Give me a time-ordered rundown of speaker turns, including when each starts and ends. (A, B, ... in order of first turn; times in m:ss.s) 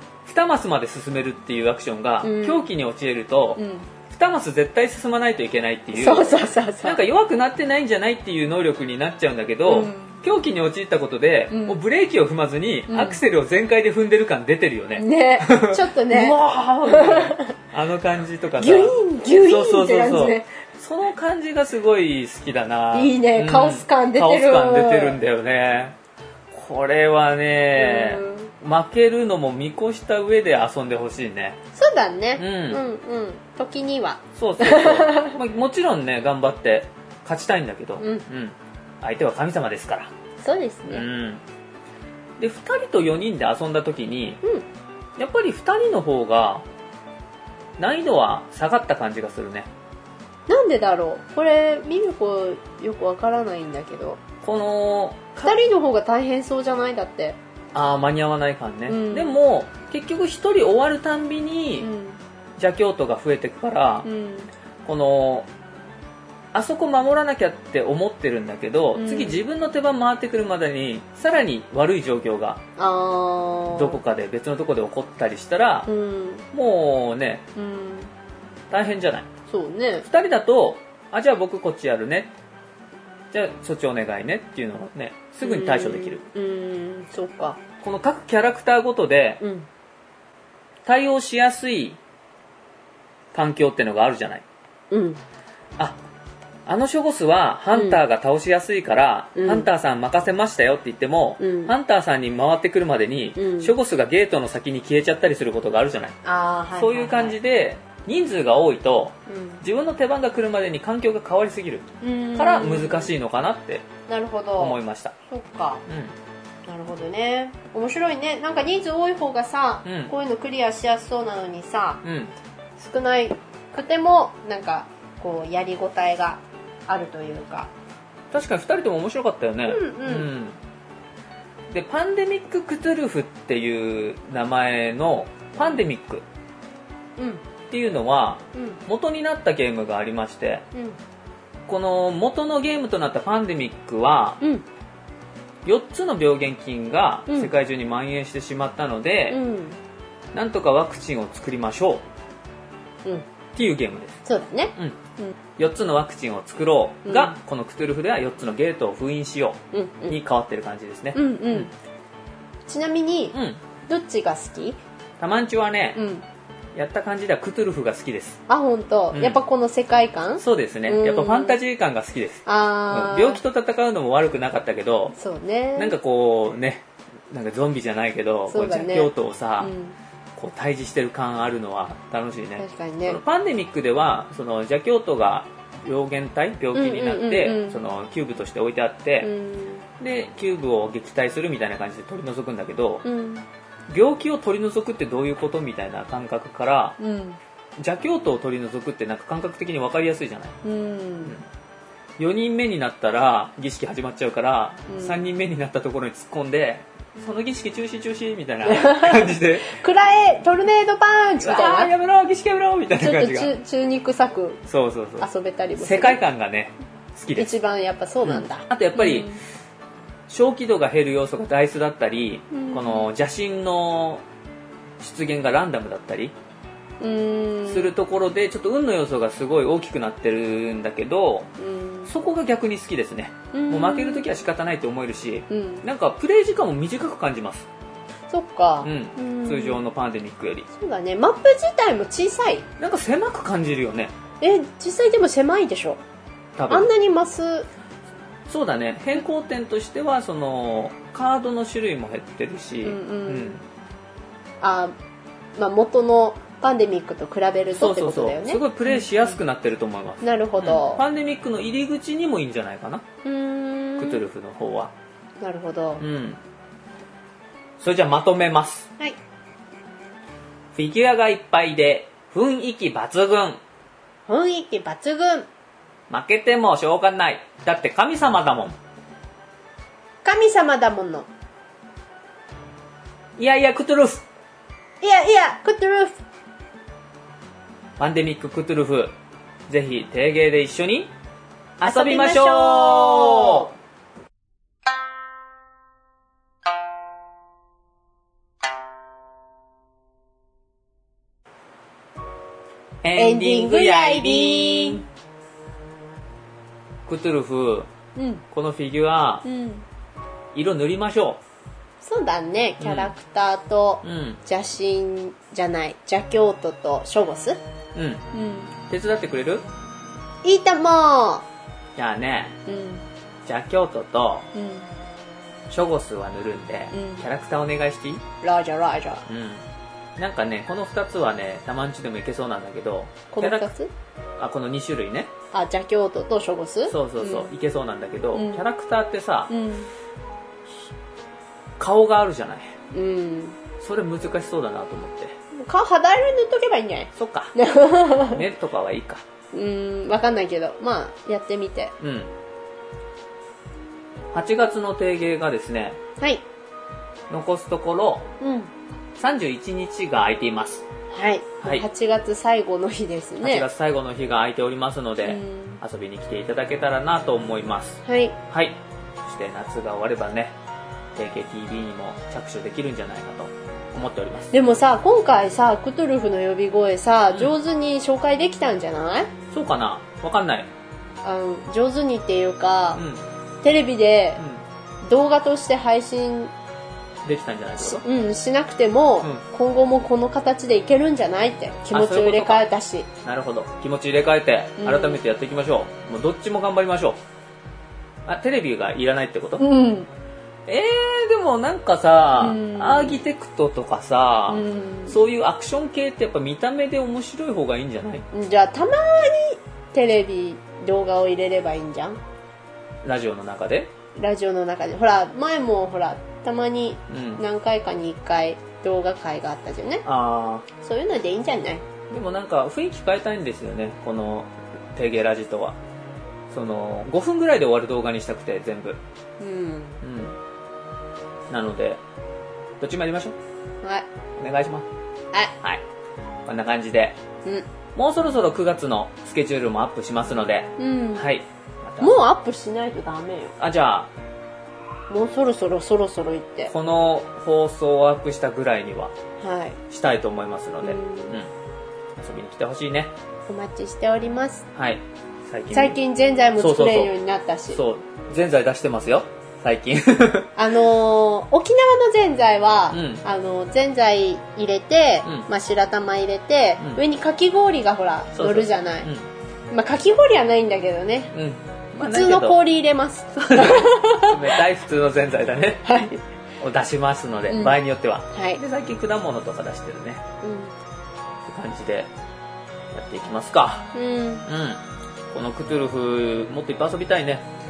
0:00.2-0:25.9 A
0:02.2-0:02.7 B
0:03.6-0:03.9 B
0:05.9-0:07.0 B
0:09.7-0:10.2 B
0:11.5-0:11.8 B
0:12.9-0:13.2 B
0:15.0-0:17.5 B
0:18.6-0:20.5 B
0:22.9-0:25.2 B
0:26.5-0:31.6 A
0:27.8-0:28.5 B
0:31.8-0:35.4 B
0:32.4-0:32.8 A
0:34.4-0:40.1 A
0:38.0-0:38.2 B
0:40.4-0:41.0 B
0:40.9-0:41.4 A
0:42.4-0:44.4 A
0:45.2-0:46.6 A
0:47.8-0:49.7 A
0:50.5-0:54.2 B
0:54.4-0:55.6 A
0:55.4-0:57.4 B
0:57.7-1:01.9 A
0:58.9-0:59.4 B
1:01.8-1:02.2 B
1:02.6-1:04.1 A
1:04.0-1:04.5 B
1:04.8-1:05.5 A
1:06.5-1:12.6 A
1:08.9-1:09.4 B
1:12.8-1:14.0 B
1:13.7-1:15.9 A
1:15.8-1:16.4 B
1:16.5-1:17.5 A
1:17.5-1:18.1 B
1:18.7-1:19.3 A
1:19.5-1:20.0 B
1:20.0-1:22.3 A
1:23.3-1:26.2 A
1:25.4-1:27.6 B
1:27.8-1:29.4 A
1:29.4-1:29.7 B
1:30.8-1:32.0 A
1:33.3-1:34.4 A
1:34.9-1:35.2 B
1:36.6-1:46.2 A
1:37.7-1:38.0 B
1:39.4-1:39.7 B
1:41.4-1:41.7 B
1:43.4-1:43.7 B
1:46.2-1:47.4 B
1:46.7-1:53.9 A
1:49.3-1:49.6 B
1:52.0-1:53.1 B
1:54.1-1:54.8 B
1:54.6-1:55.1 A
1:55.3-1:55.8 B
1:55.9-1:56.1 A
1:56.6-2:02.0 B
1:59.8-2:00.1 A
2:02.0-2:02.3 A
2:02.8-2:07.7 B
2:08.3-2:10.6 A
2:09.6-2:10.3 B
2:11.7-2:16.2 A
2:17.2-2:17.4 B
2:17.7-2:20.6 A
2:18.5-2:18.8 B
2:21.7-2:24.4 A
2:24.4-2:24.6 B
2:25.6-2:29.4 A
2:29.3-2:29.8 B
2:30.3-2:32.0 A
2:33.5-2:34.2 A
2:34.2-2:35.4 B
2:35.6-2:41.7 A
2:37.0-2:37.4 B
2:39.7-2:40.2 B
2:41.1-2:41.7 B
2:42.7-2:44.8 B
2:43.3-2:43.6 A
2:45.2-2:46.0 A
2:45.9-2:46.2 B
2:46.7-2:48.4 A
2:48.5-2:51.6 B
2:49.1-2:49.4 A
2:50.4-2:55.1 A
2:52.4-2:53.4 B
2:55.2-2:56.0 B
2:55.8-2:59.7 A
2:58.5-2:59.9 B
3:00.4-3:09.3 A
3:02.6-3:03.2 B
3:06.7-3:07.8 B
3:09.2-3:09.8 B
3:10.0-3:13.0 A
3:13.0-3:13.5 B
3:13.9-3:17.0 A
3:17.0-3:17.4 B
3:17.8-3:20.6 A
3:20.6-3:21.3 B
3:22.2-3:29.8 A
3:24.9-3:25.2 B
3:28.6-3:31.9 B
3:31.4-3:33.5 A
3:33.0-3:34.6 B
3:34.7-3:35.3 A
3:35.2-3:36.2 B
3:35.8-3:37.5 A
3:37.4-3:39.4 B
3:38.2-3:39.3 A
3:40.3-3:44.2 A
3:42.5-3:43.1 B
3:45.0-3:46.3 A
3:47.0-3:47.9 B
3:47.7-3:51.5 A
3:51.6-3:52.1 B
3:52.1-3:57.7 A
3:53.5-3:54.3 B
3:55.5-3:55.8 B
3:58.3-3:59.8 B
3:58.8-4:00.7 A
4:00.7-4:02.6 B
4:02.8-4:04.1 A
4:04.4-4:06.0 B
4:06.6-4:06.9 A
4:06.7-4:07.7 B
4:08.5-4:13.6 A
4:12.8-4:13.6 B
4:14.6-4:14.9 B
4:15.6-4:19.4 B
4:17.7-4:23.0 A
4:20.2-4:21.0 B
4:23.2-4:24.2 B
4:24.0-4:24.9 A
4:25.4-4:26.0 B
4:26.0-4:26.4 A
4:27.8-4:28.9 A
4:30.7-4:33.6 A
4:34.3-4:35.5 B
4:36.1-4:38.8 A
4:40.2-4:41.3 B
4:43.4-4:44.2 A
4:45.0-4:46.2 B
4:48.0-4:49.1 A
4:49.7-4:51.1 A
4:51.8-4:53.7 A
4:51.8-4:53.7 B
5:03.0-5:05.0 A
5:03.1-5:05.0 B
5:07.1-5:07.9 A
5:08.2-5:08.4 B
5:08.5-5:09.4 A
5:09.4-5:09.8 B
5:10.5-5:11.4 A
5:12.0-5:17.6 B
5:12.8-5:13.1 A
5:14.0-5:14.4 A
5:17.9-5:18.2 A
5:18.3-5:18.7 B
5:18.8-5:19.6 A
5:20.4-5:21.4 B
5:22.0-5:22.6 A
5:22.6-5:23.0 B
5:23.4-5:24.5 A
5:24.5-5:24.9 B
5:25.7-5:28.2 A
5:26.9-5:27.2 B
5:28.4-5:29.2 B
5:29.3-5:29.6 A
5:30.2-5:33.7 A
5:33.3-5:33.9 B
5:34.4-5:35.3 A
5:35.5-5:37.5 B
5:36.9-5:39.5 A
5:38.3-5:38.6 B
5:39.5-5:39.9 B
5:41.8-5:42.7 A
5:42.9-5:43.6 B
5:43.8-5:45.4 A
5:45.5-5:48.4 B
5:47.1-5:47.6 A
5:48.2-5:49.2 A
5:49.5-5:51.9 B
5:52.0-5:52.3 A
5:54.3-5:56.0 A
5:56.2-5:56.4 B
5:57.3-5:58.3 A
5:58.4-5:58.7 B
5:59.2-6:00.8 A
6:01.1-6:03.7 B
6:03.4-6:10.5 A
6:05.2-6:05.8 B
6:08.0-6:08.4 B
6:11.1-6:14.5 A
6:14.5-6:19.3 B
6:19.5-6:20.7 A
6:21.2-6:23.0 B
6:22.9-6:23.2 A
6:23.6-6:24.4 B
6:24.4-6:24.6 A
6:25.0-6:26.5 B
6:27.2-6:28.0 A
6:27.8-6:33.1 B
6:31.9-6:32.6 A
6:33.2-6:37.2 A
6:34.8-6:35.2 B
6:38.3-6:39.7 A
6:39.6-6:40.1 B
6:40.7-6:48.2 A
6:42.4-6:43.2 B
6:44.5-6:45.2 B
6:48.3-6:52.2 B
6:53.0-6:53.9 A
6:54.1-7:00.0 B
6:57.1-6:57.4 A
7:00.0-7:00.6 A
7:00.7-7:01.8 B
7:02.1-7:05.8 A
7:06.5-7:09.0 A
7:09.4-7:10.0 B
7:10.0-7:10.4 A
7:11.5-7:12.0 A
7:12.8-7:13.3 A
7:13.8-7:14.1 B
7:14.4-7:14.9 A
7:16.4-7:17.2 A
7:17.9-7:22.2 A
7:20.8-7:21.2 B
7:22.0-7:23.5 B
7:23.6-7:24.1 A
7:25.1-7:26.7 B
7:26.7-7:29.1 A
7:29.4-7:29.8 B
7:29.9-7:31.5 A
7:30.8-7:31.4 B
7:32.2-7:33.1 A
7:33.5-7:34.6 B
7:34.7-7:36.0 A
7:35.7-7:37.8 B
7:36.6-7:37.1 A
7:37.7-7:40.5 A
7:40.6-7:49.1 B
7:42.9-7:43.2 A
7:48.4-7:49.2 A
7:49.7-7:51.3 B
7:51.3-7:52.6 A
7:52.0-7:54.5 B
7:53.4-7:55.9 A
7:55.8-7:56.2 B
7:56.6-8:00.2 A
7:57.5-7:57.8 B
7:58.3-7:58.6 B
8:00.4-8:00.7 B
8:01.4-8:02.1 A
8:02.9-8:03.9 A
8:03.9-8:04.4 B
8:04.4-8:04.8 A
8:05.3-8:07.4 A